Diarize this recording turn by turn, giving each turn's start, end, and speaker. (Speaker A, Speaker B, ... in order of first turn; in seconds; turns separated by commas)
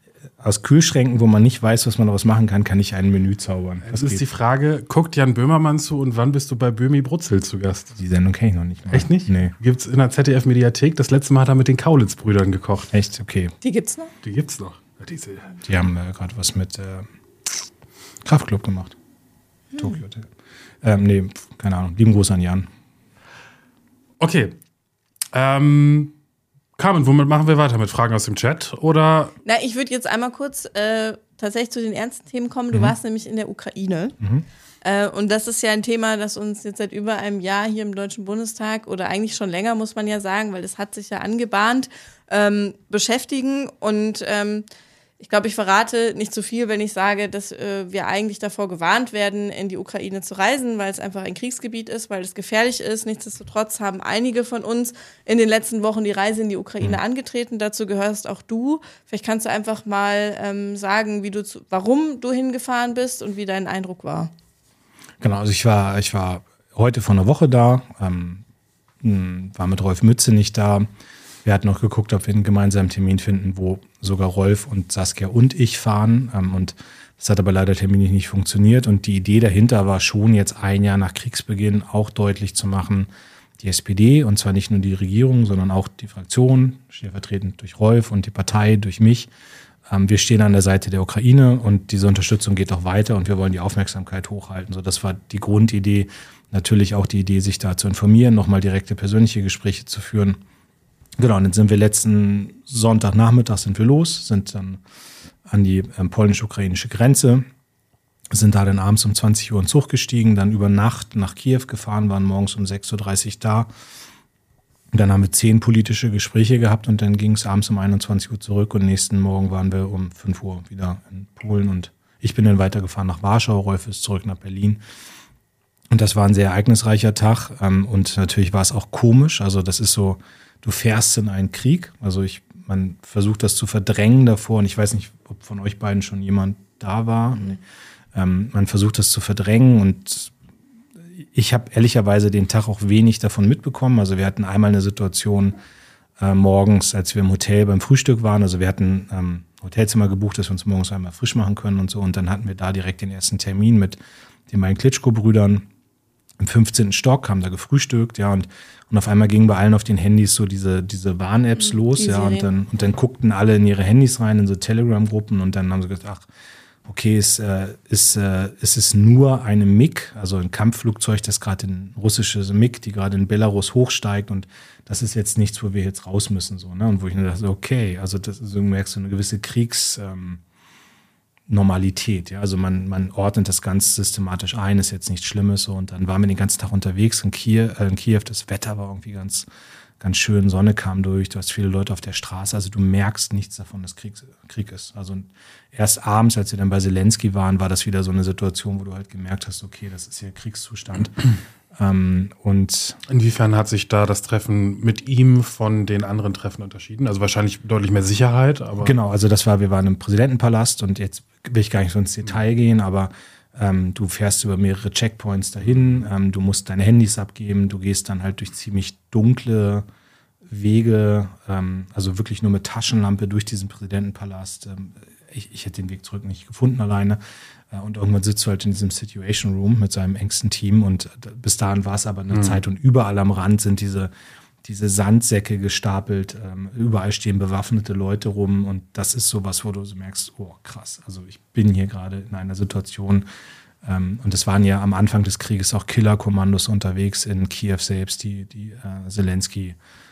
Speaker A: 0.4-4.2, Speaker B: 3.9-7.9, Speaker A: 7.9-9.6, Speaker B: 8.9-12.9, Speaker A: 12.9-13.6, Speaker C: 13.6-14.1, Speaker B: 14.2-15.5, Speaker A: 15.6-17.1, Speaker A: 18.2-19.0, Speaker A: 19.8-20.3, Speaker A: 20.8-22.7, Speaker B: 24.2-24.6, Speaker B: 25.3-26.1, Speaker B: 26.8-29.4, Speaker C: 29.4-34.2, Speaker A: 34.2-34.5, Speaker C: 34.8-44.7, Speaker C: 45.2-64.3, Speaker A: 65.2-68.4, Speaker A: 69.0-70.9, Speaker A: 71.4-89.3, Speaker A: 89.9-100.4, Speaker A: 101.2-104.8, Speaker A: 105.5-107.5, Speaker A: 108.3-113.7, Speaker A: 114.9-124.8, Speaker A: 125.9-137.6, Speaker A: 138.1-140.3, Speaker A: 141.1-145.6, Speaker A: 146.2-155.7, Speaker A: 156.4-166.3, Speaker C: 161.7-162.5, Speaker A: 166.8-180.4, Speaker A: 181.5-189.5, Speaker A: 190.0-203.0, Speaker B: 203.1-208.9, Speaker A: 208.8-219.9, Speaker A: 220.5-227.2, Speaker A: 227.7-234.1, Speaker B: 232.3-232.6, Speaker A: 234.6-243.3, Speaker A: 243.8-249.8